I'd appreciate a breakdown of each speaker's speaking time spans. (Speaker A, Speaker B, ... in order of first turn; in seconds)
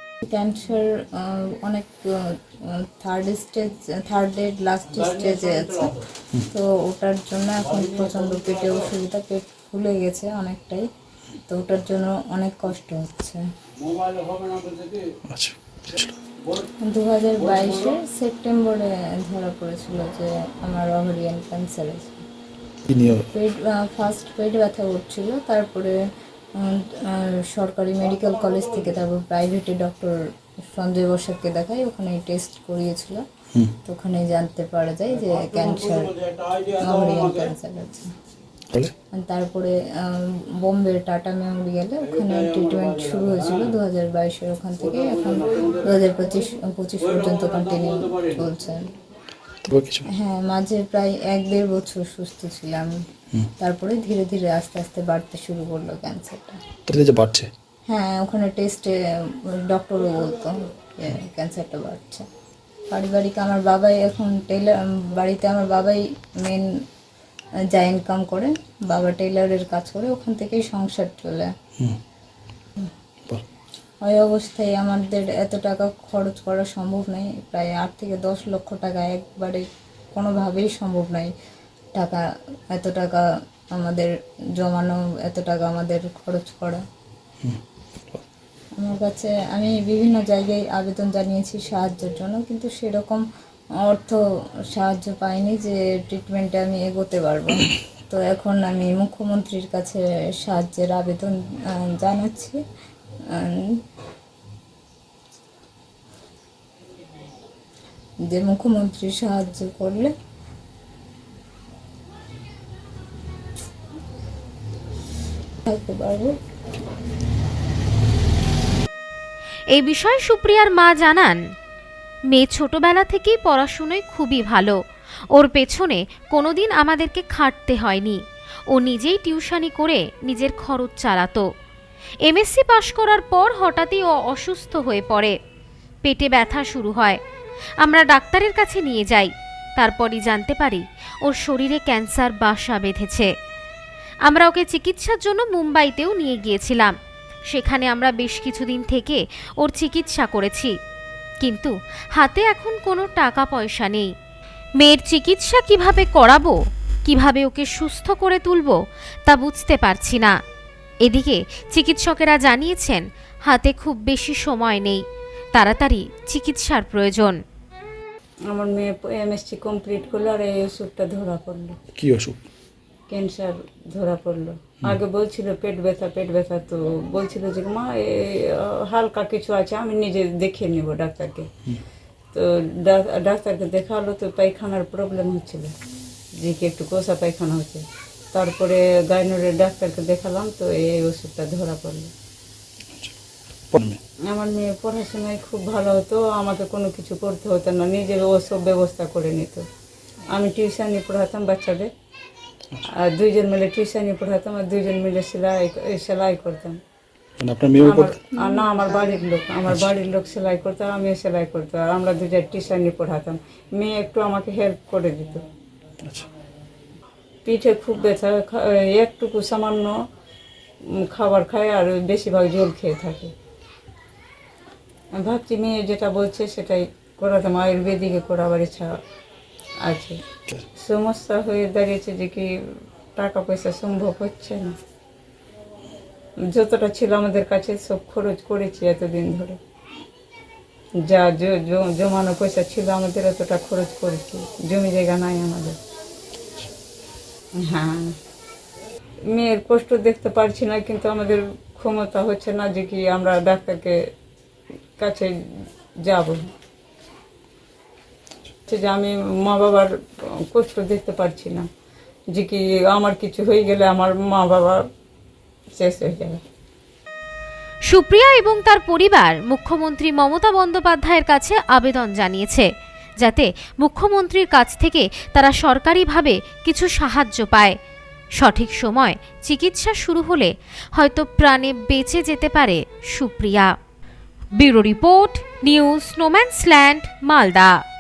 Speaker A: 0.2-2.0, 2.7-10.9, 11.5-13.4, 16.9-22.2, 23.3-25.9, 26.6-30.2, 30.7-33.2, 33.8-38.1, 39.1-48.9, 50.1-52.9, 53.6-56.6, 57.9-58.9, 59.7-62.2, 62.9-66.7, 67.7-71.5, 74.0-81.3, 82.0-83.2, 83.8-86.8, 88.8-93.2, 93.8-94.2, 94.7-102.6, 103.3-103.7, 108.3-110.1, 115.7-116.3, 208.5-208.9
Speaker B: 15.3-16.1, 22.9-23.3, 49.7-50.1, 56.9-57.5, 172.0-172.4, 193.7-194.0, 207.4-208.2
Speaker C: 119.7-121.4, 122.3-124.8, 125.3-131.5, 132.2-135.3, 136.0-137.2, 137.8-143.3, 144.3-146.9, 147.5-150.7, 151.4-154.1, 154.8-160.3, 161.0-165.0, 165.6-167.4, 267.9-277.8, 278.4-283.7, 284.6-287.7
Speaker D: 168.5-171.8, 173.1-181.5, 182.3-185.7, 186.4-192.1, 194.3-199.7, 200.3-201.9, 203.0-206.8, 207.8-215.4, 217.4-220.0, 221.1-223.3, 225.2-229.0, 229.8-230.2, 230.8-232.5, 233.2-234.7, 236.5-239.6, 241.0-245.8, 247.6-248.1, 249.3-254.0, 255.0-255.3, 256.0-256.4, 258.7-259.9, 260.5-261.7, 262.3-264.8, 265.8-266.4